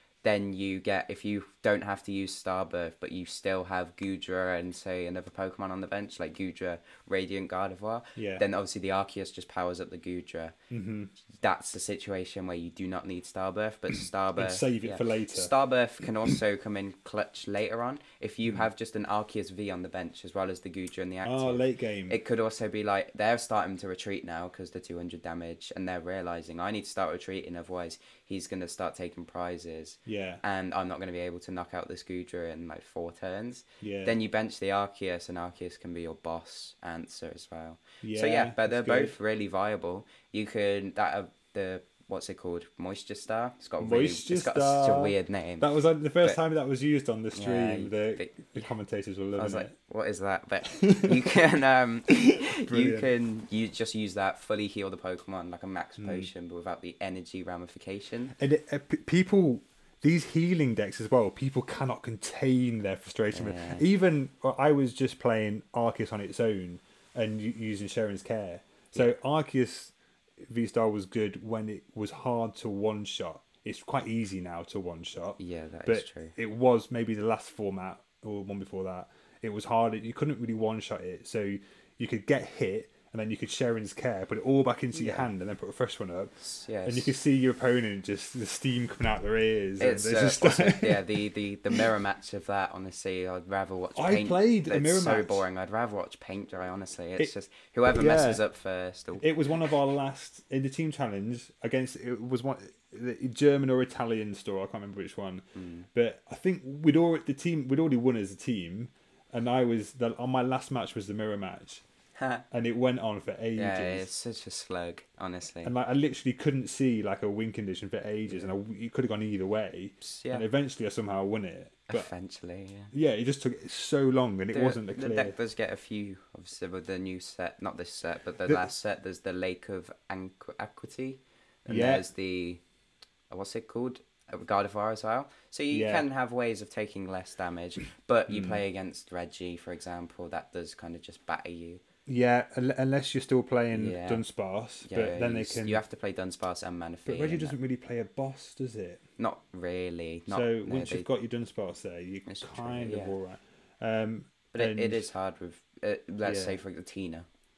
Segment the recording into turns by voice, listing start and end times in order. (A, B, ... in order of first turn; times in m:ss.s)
0:00.2-0:10.6 A
0:08.2-0:08.4 B
0:10.7-0:11.1 B
0:11.3-0:45.7 A
0:14.4-0:15.5 B
0:21.2-0:22.2 B
0:30.1-0:30.4 B
0:33.8-0:34.2 B
0:38.0-0:39.2 B
0:43.8-0:49.7 B
0:47.3-0:48.7 A
0:49.4-0:58.4 A
0:50.7-0:51.3 B
0:52.1-0:53.1 B
0:56.0-0:56.3 B
0:58.4-1:09.9 B
1:03.3-1:03.8 A
1:10.5-1:26.3 B
1:15.4-1:16.4 A
1:24.9-1:25.3 A
1:26.4-1:27.2 A
1:26.8-1:31.1 B
1:29.8-1:39.2 A
1:34.0-1:35.4 B
1:37.9-1:38.4 B
1:39.2-1:51.8 B
1:45.6-1:45.9 A
1:52.2-1:52.4 A
1:52.5-1:54.1 B
1:53.6-1:55.7 A
1:55.6-2:02.1 B
1:58.3-1:58.5 A
2:00.0-2:00.4 A
2:01.9-2:02.9 A
2:02.9-2:05.4 B
2:04.5-2:12.6 A
2:11.7-2:12.0 B
2:13.3-2:21.8 A
2:15.7-2:16.0 B
2:18.3-2:18.6 B
2:22.1-2:25.8 B
2:23.7-2:24.2 A
2:24.8-2:27.6 A
2:27.1-2:29.0 B
2:29.2-2:31.1 A
2:30.3-2:35.1 B
2:32.3-2:33.1 A
2:34.5-2:37.3 A
2:36.2-2:36.6 B